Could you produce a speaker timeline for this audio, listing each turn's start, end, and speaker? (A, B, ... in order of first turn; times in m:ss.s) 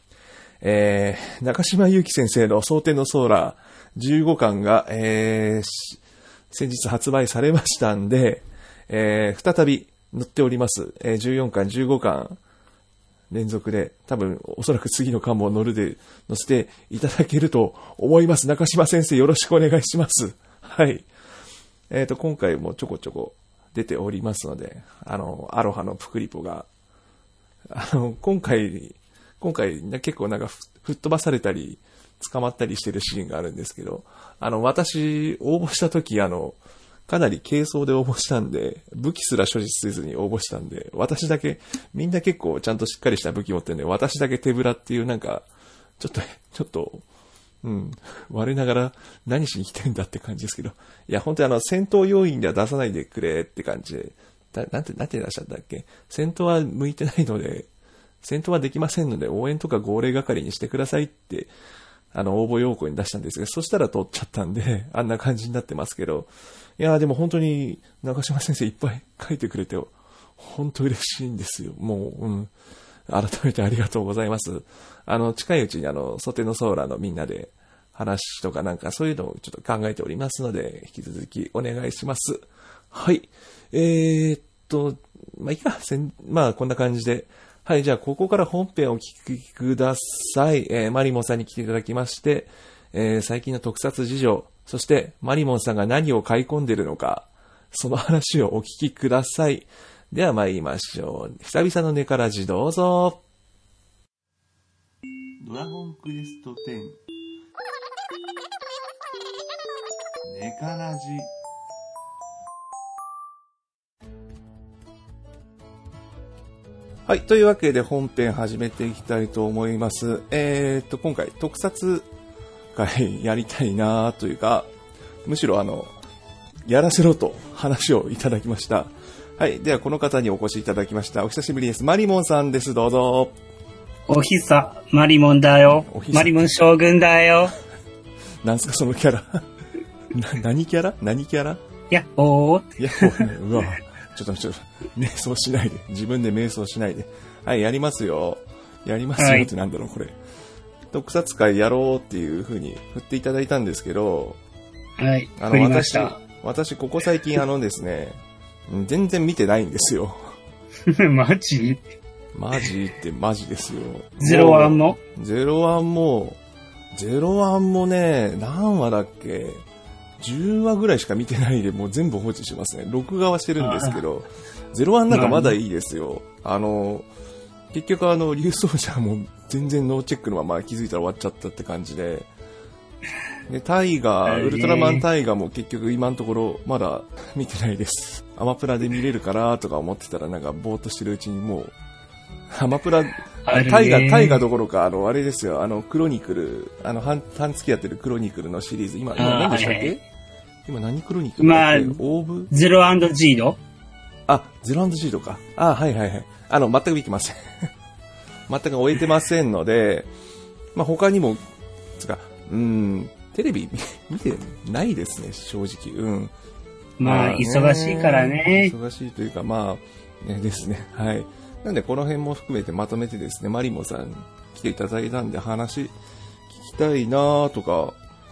0:00.6-0:12.4 A
0:13.3-0:21.1 A
0:21.9-0:26.7 A
0:27.7-0:45.5 A
0:46.0-0:47.0 A
0:47.6-0:57.7 A
0:58.2-1:01.5 A
1:02.1-1:12.5 A
1:13.1-1:43.2 A
1:45.4-1:47.0 A
1:50.3-1:51.3 A
1:57.1-2:02.1 A
2:02.8-2:04.7 A
2:05.2-2:05.9 A
2:06.7-2:13.4 A
2:14.1-2:17.6 B
2:15.7-2:16.5 A
2:18.4-2:19.4 A
2:20.1-2:21.6 A
2:21.9-2:23.3 B
2:22.8-2:30.2 A
2:29.2-2:29.5 B
2:30.9-2:34.4 A
2:35.0-2:36.2 B
2:35.4-2:40.3 A
2:40.9-2:41.8 B
2:42.4-2:46.4 A
2:44.2-2:45.0 B
2:46.9-2:49.6 A
2:50.2-2:57.1 A
2:53.6-2:54.0 B
2:55.1-2:55.6 B
2:57.7-3:02.3 A
3:03.5-3:11.8 A
3:04.3-3:05.1 B
3:12.5-3:20.0 A
3:13.4-3:14.4 B
3:19.2-3:20.0 B
3:20.7-3:22.5 A
3:21.4-3:22.0 B
3:22.5-3:23.6 B
3:24.3-3:27.7 A
3:28.5-3:30.1 A
3:30.8-3:31.4 A
3:32.0-3:36.3 A
3:37.0-3:38.7 B
3:37.0-3:45.9 A
3:46.5-3:48.0 A